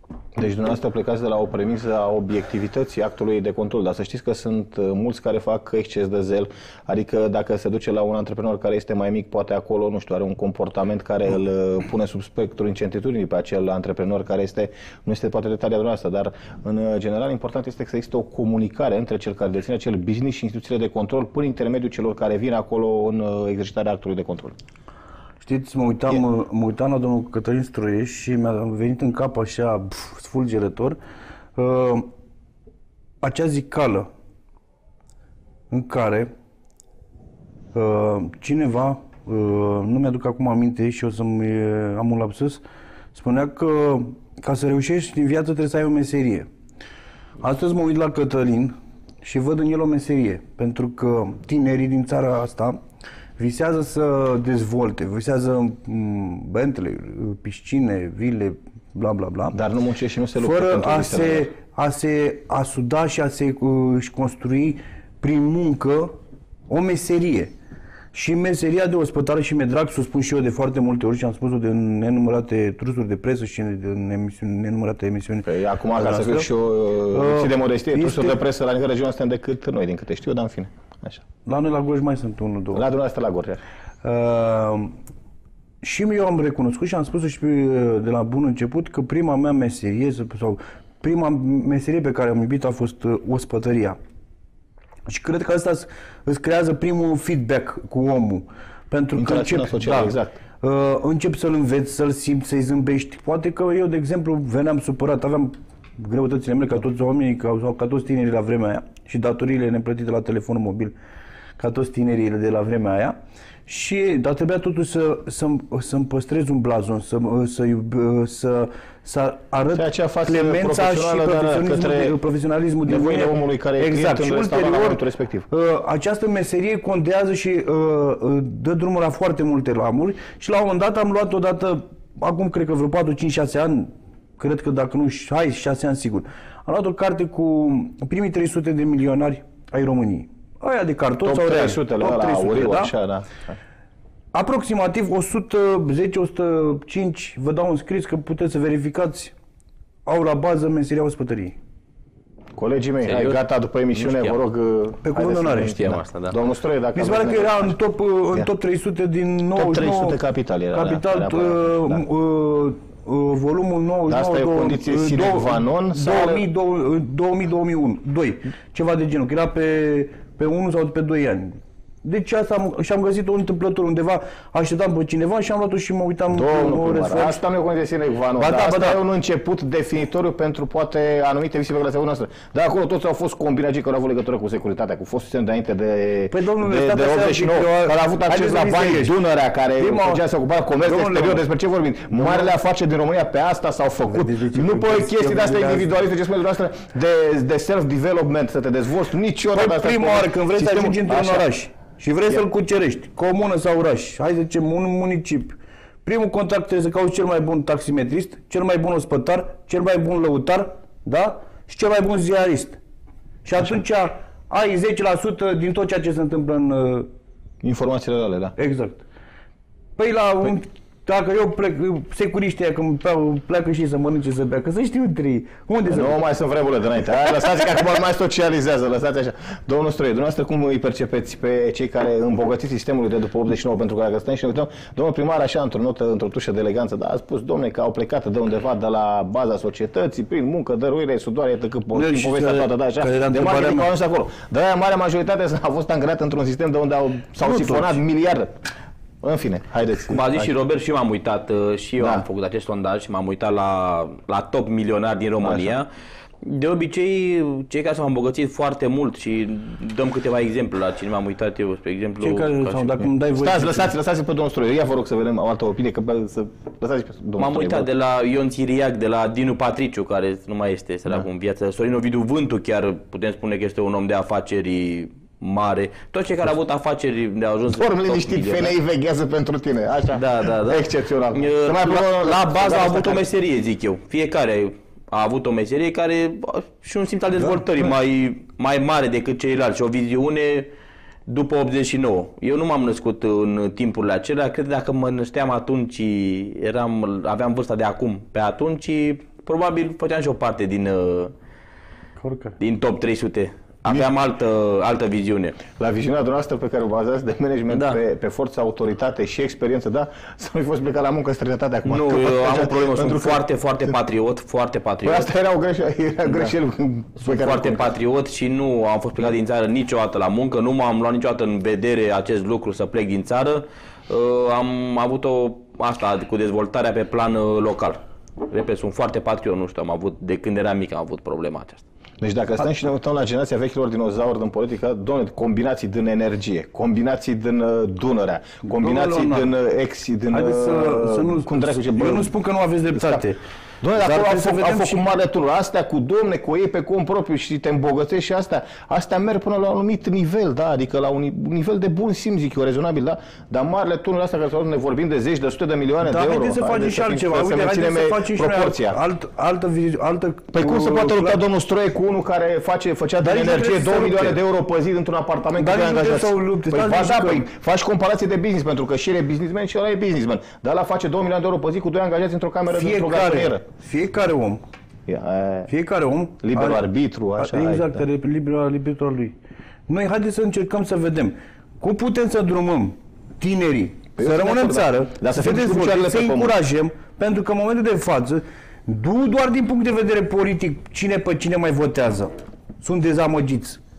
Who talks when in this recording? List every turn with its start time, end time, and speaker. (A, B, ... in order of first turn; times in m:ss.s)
0:00.4-0:24.6 A
0:25.4-0:31.0 B
0:31.6-0:32.1 B
0:33.2-0:34.1 B
0:35.7-0:36.3 B
0:37.7-0:42.6 B
0:43.1-0:46.5 B
0:47.4-0:52.8 B
0:53.4-0:59.6 B
0:59.5-1:01.5 A
1:00.4-1:06.2 B
1:06.7-1:07.5 B
1:08.1-1:16.5 B
1:15.4-1:21.2 A
1:17.1-1:18.4 B
1:21.4-1:22.8 B
1:22.7-1:23.6 A
1:24.0-1:25.0 B
1:25.8-1:34.0 B
1:35.1-1:50.9 B
1:39.1-1:40.4 A
1:51.6-2:22.9 B
1:59.7-2:02.2 A
2:02.8-2:05.5 A
2:21.2-2:23.6 A
2:24.3-2:29.3 B
2:30.1-2:31.6 B
2:32.6-2:37.8 A
2:33.0-2:34.4 C
2:35.0-2:35.9 B
2:35.7-2:36.3 C
2:36.9-2:40.2 B
2:39.5-2:42.0 A
2:40.7-2:57.4 B
2:44.1-2:46.4 A
2:56.3-3:21.5 A
2:58.4-2:59.0 B
3:06.3-3:09.2 B
3:09.8-3:10.2 B
3:10.8-3:11.5 B
3:12.1-3:12.5 B
3:14.1-3:15.9 B
3:19.5-3:32.8 B
3:33.4-3:37.1 B
3:37.6-3:38.5 A
3:38.6-3:39.0 B
3:40.0-3:46.2 B
3:45.9-4:08.6 A
4:01.9-4:03.9 B
4:07.4-4:08.0 B
4:09.2-4:10.5 A
4:10.1-4:15.9 C
4:12.0-4:12.2 A
4:15.4-4:15.8 A
4:16.4-4:23.0 C
4:22.2-4:23.9 B
4:23.4-4:27.9 A
4:27.4-4:38.7 C
4:37.7-4:43.3 A
4:40.1-4:50.7 C
4:51.3-5:01.3 C
5:02.2-5:02.6 B
5:02.6-5:05.6 C
5:05.8-5:13.4 A
5:07.7-5:08.0 C
5:11.8-5:15.3 C
5:15.0-5:17.9 A
5:17.2-5:31.8 C
5:32.2-5:42.3 A
5:38.6-5:39.5 B
5:40.3-5:43.4 B
5:42.9-5:43.2 A
5:43.8-5:59.0 A
5:44.0-5:45.0 B
5:56.0-6:01.4 B
6:00.5-6:13.6 A
6:03.2-6:04.4 B
6:05.6-6:07.5 B
6:12.7-6:14.6 B
6:15.1-6:15.7 A
6:15.7-6:16.8 B
6:16.4-6:18.0 A
6:17.4-6:19.4 B
6:19.9-6:33.8 B
6:24.2-6:26.6 A